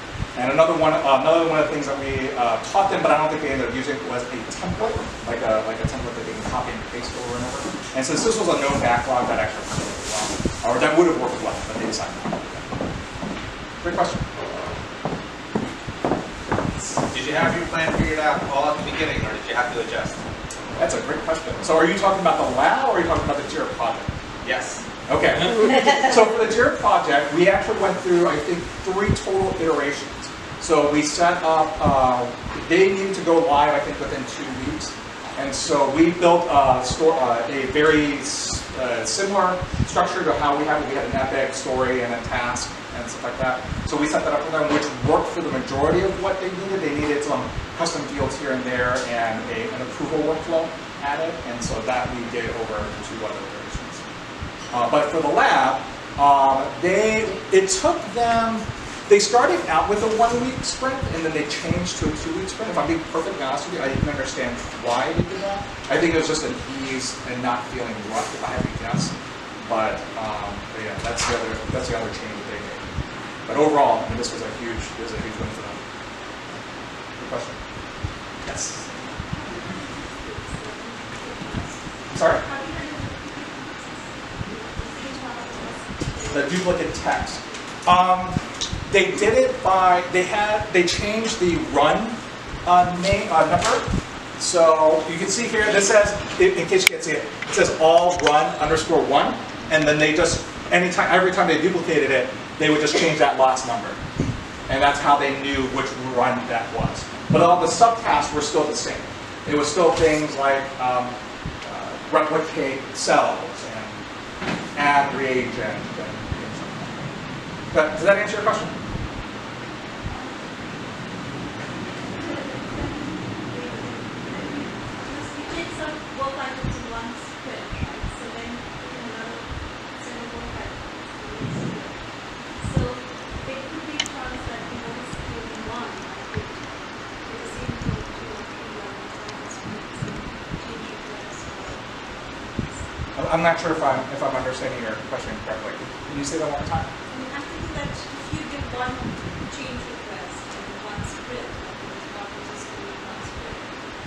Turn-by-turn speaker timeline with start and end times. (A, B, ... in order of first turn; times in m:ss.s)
0:00.3-0:12.7 A
0:13.8-0:14.3 A
0:17.1-0:20.2 B
0:20.8-0:24.1 A
0:24.4-0:24.8 B
0:25.0-0:54.0 A
0:54.7-1:12.9 A
1:13.4-1:15.8 A
1:17.2-1:17.6 A
1:18.4-1:18.8 A
1:18.7-1:26.9 C
1:22.1-1:22.4 A
1:26.3-1:44.0 A
1:44.7-1:54.0 A
1:54.7-1:57.1 A
1:57.7-1:58.8 A
2:00.0-2:00.8 C
2:02.1-2:22.8 C
2:23.1-2:26.9 A
2:27.1-2:33.9 C